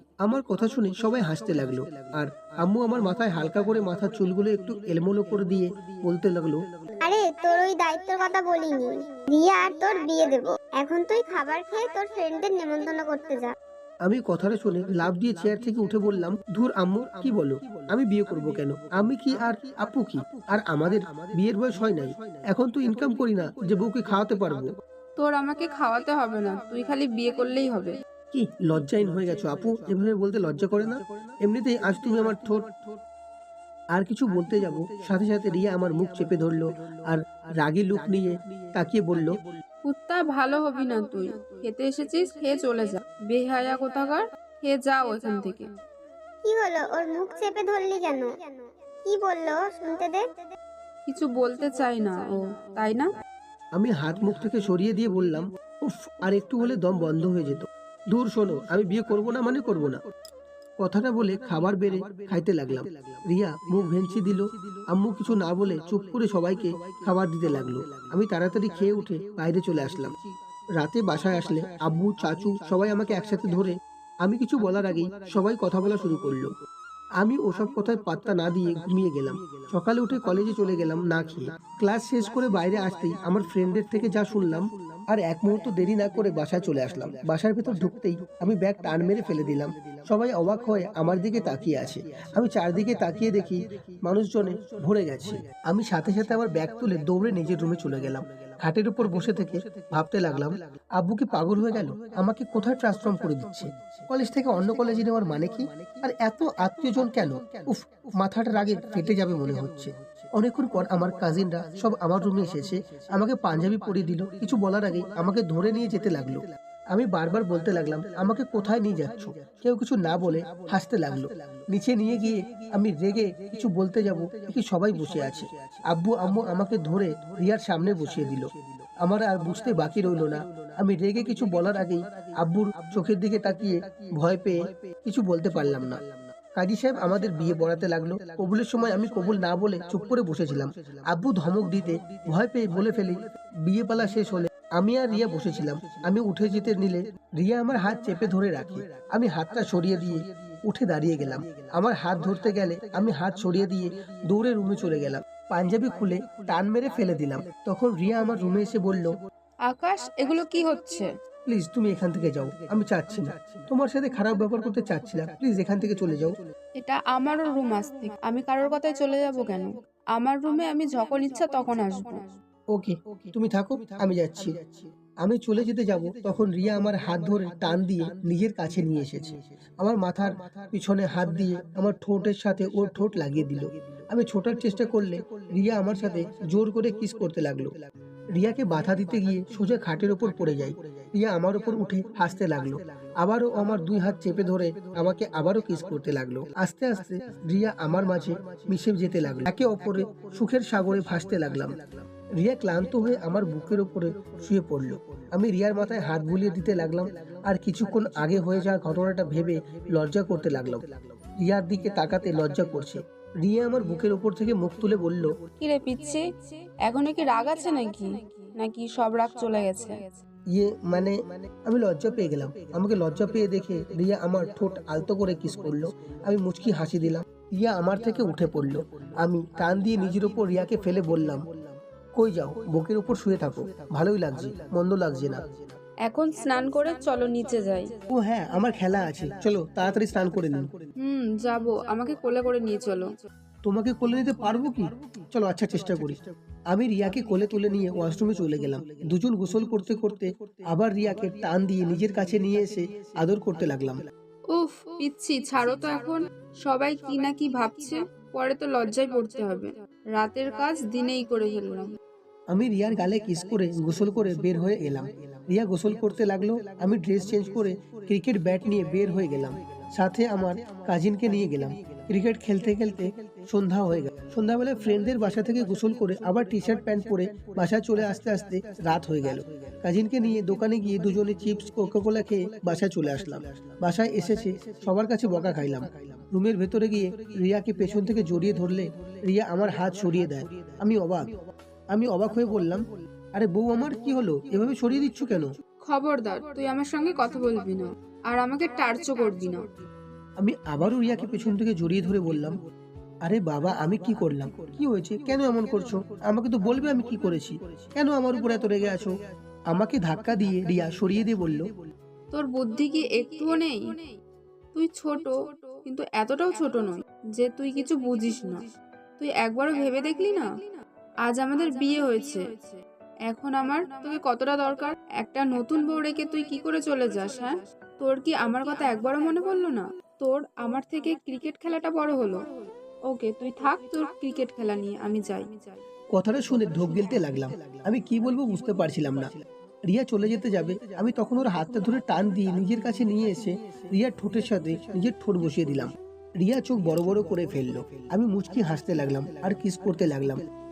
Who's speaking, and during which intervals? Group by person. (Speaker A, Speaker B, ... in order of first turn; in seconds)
Speaker A: 0.2-6.6, 14.1-24.7, 28.3-32.7, 33.9-39.3, 53.7-60.0, 60.8-70.2, 70.8-76.5, 77.2-136.0, 136.5-159.2, 161.5-166.4, 172.7-174.6, 175.2-187.7, 188.3-201.8, 202.4-210.8, 211.4-215.3, 220.5-231.4, 232.2-235.4, 238.1-240.7, 243.7-246.2, 246.7-254.0, 262.5-291.3, 291.9-295.5, 300.4-302.6, 303.2-309.2, 309.7-311.7, 336.1-339.3, 339.9-350.4
Speaker B: 7.0-13.6, 46.4-50.3
Speaker C: 25.2-28.0, 39.9-45.7, 51.1-53.1, 159.7-161.0, 166.8-172.2, 215.6-216.2, 216.8-220.0, 236.1-237.9, 241.0-243.1, 254.5-261.9, 295.8-299.7, 312.3-313.8, 314.7-315.3, 315.8-318.6, 319.2-320.4, 321.3-322.4, 323.3-332.5, 333.1-335.5